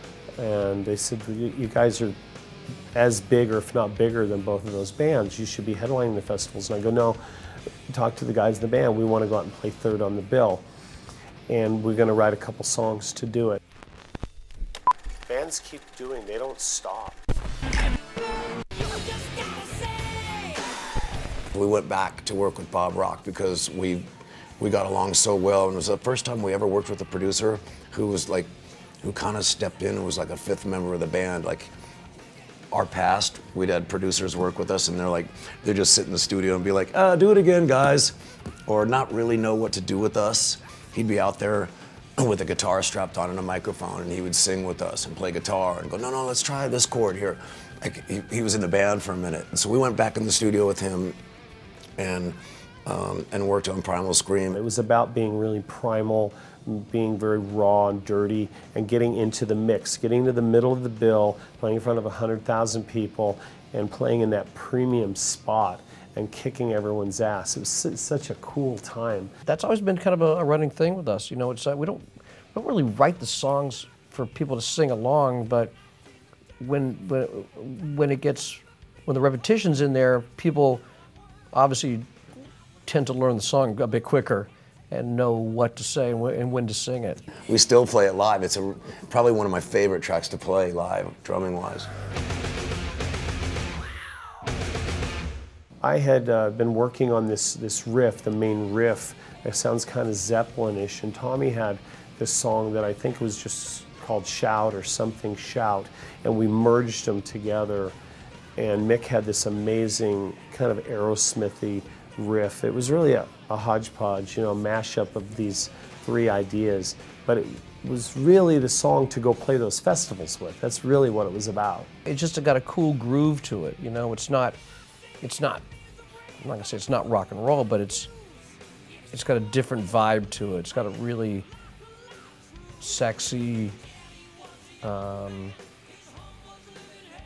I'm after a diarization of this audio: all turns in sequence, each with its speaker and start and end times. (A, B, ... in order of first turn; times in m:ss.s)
0:00.4-0:02.2 A
0:02.9-0:07.2 A
0:07.9-0:10.6 A
0:11.5-0:13.6 A
0:15.3-0:17.2 A
0:21.5-0:24.1 B
0:24.6-0:28.5 B
0:29.0-0:31.7 B
0:32.7-0:38.1 B
0:38.7-0:51.2 B
0:52.0-0:54.6 B
0:54.5-1:09.3 A
1:09.4-1:15.7 C
1:16.6-1:20.8 C
1:21.5-1:22.0 C
1:22.8-1:27.2 C
1:27.4-1:31.9 B
1:35.8-1:48.0 A
1:48.6-2:01.9 A
2:02.0-2:04.6 C
2:05.2-2:05.6 C
2:06.4-2:08.1 C
2:09.1-2:11.4 C
2:12.8-2:13.8 C
2:14.8-2:15.5 C